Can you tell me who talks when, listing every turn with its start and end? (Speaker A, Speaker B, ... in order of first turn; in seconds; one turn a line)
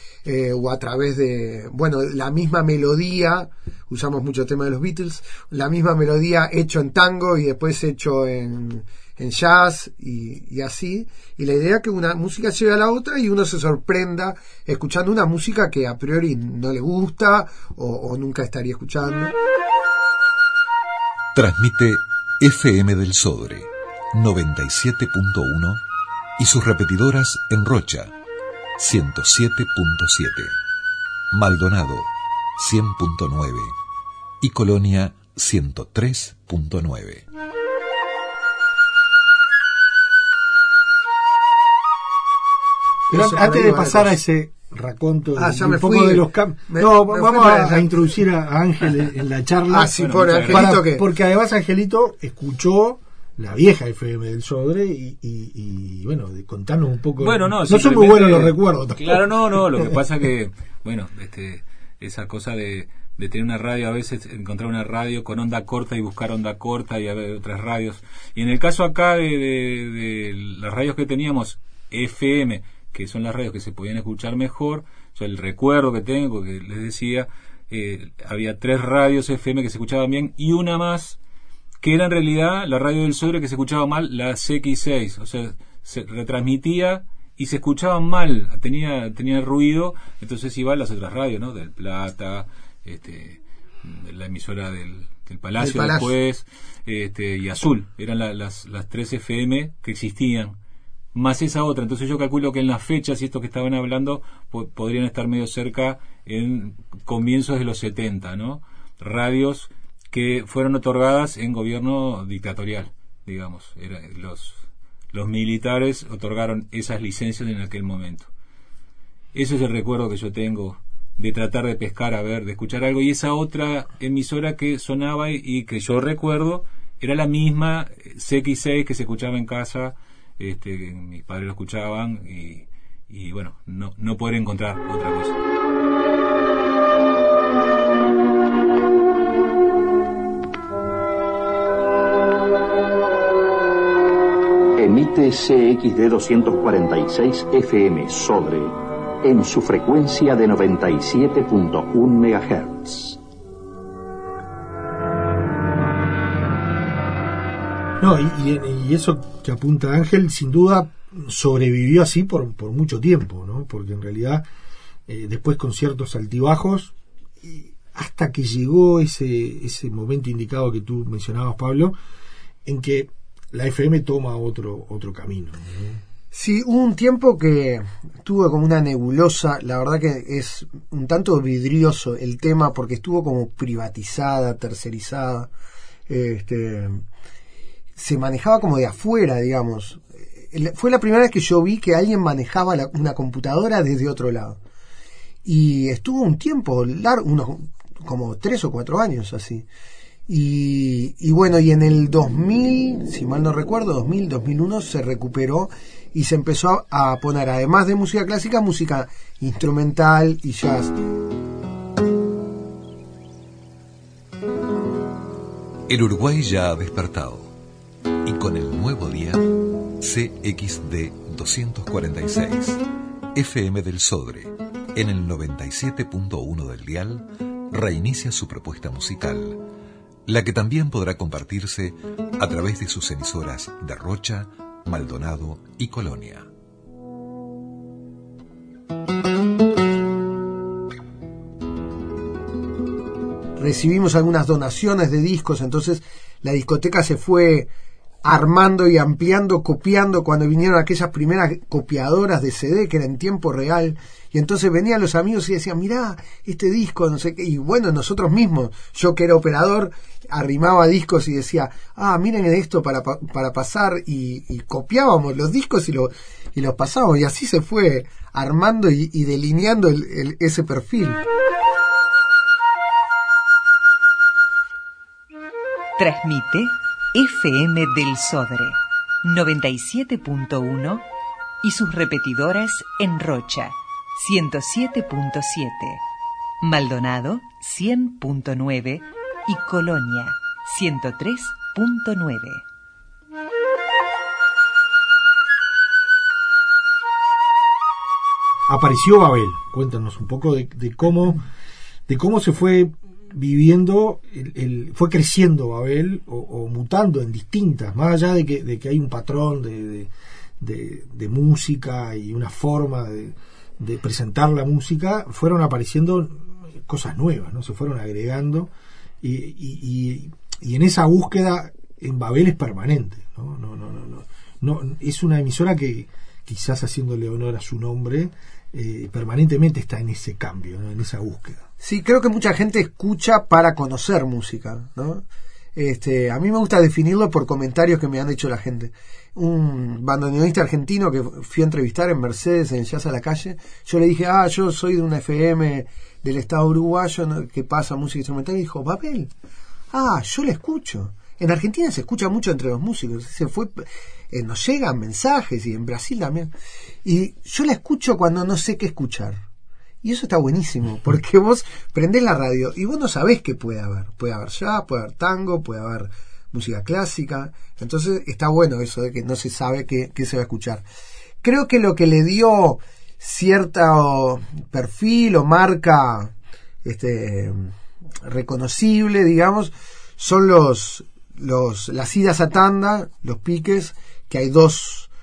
Speaker A: 0.2-19.3
Speaker B: 21.3-25.8
Speaker B: 26.4-28.1
Speaker B: 28.8-30.6
Speaker B: 31.3-33.7
Speaker B: 34.4-37.2
Speaker A: 43.1-44.2
Speaker C: 43.1-59.2
Speaker A: 45.4-47.9
Speaker A: 49.7-51.0
Speaker D: 50.0-50.7
Speaker D: 57.2-81.2
Speaker D: 81.8-100.5
Speaker A: 95.6-96.1
Speaker D: 101.1-118.3
Speaker D: 119.3-135.4
Speaker E: 144.8-153.2
Speaker C: 158.0-164.4
Speaker C: 165.1-171.9
Speaker C: 172.6-175.7
Speaker A: 176.3-185.5
Speaker A: 186.1-187.0
Speaker A: 187.9-194.6
Speaker A: 195.4-199.7
Speaker A: 200.3-210.9
Speaker B: 215.9-217.5
Speaker B: 218.2-219.5
Speaker B: 220.0-222.8
Speaker B: 223.3-229.6
Speaker B: 230.2-236.5
Speaker A: 243.6-247.7
Speaker A: 248.2-271.2
Speaker F: 276.0-281.0
Speaker F: 281.6-286.0
Speaker F: 286.6-292.6
Speaker C: 298.7-301.4
Speaker C: 302.1-310.1
Speaker C: 310.6-318.7
Speaker C: 319.2-331.6
Speaker A: 331.8-349.3
Speaker A: 349.9-356.5
Speaker A: 357.0-359.4
Speaker A: 360.0-370.8
Speaker A: 371.4-376.3
Speaker A: 376.8-377.7
Speaker A: 378.2-385.1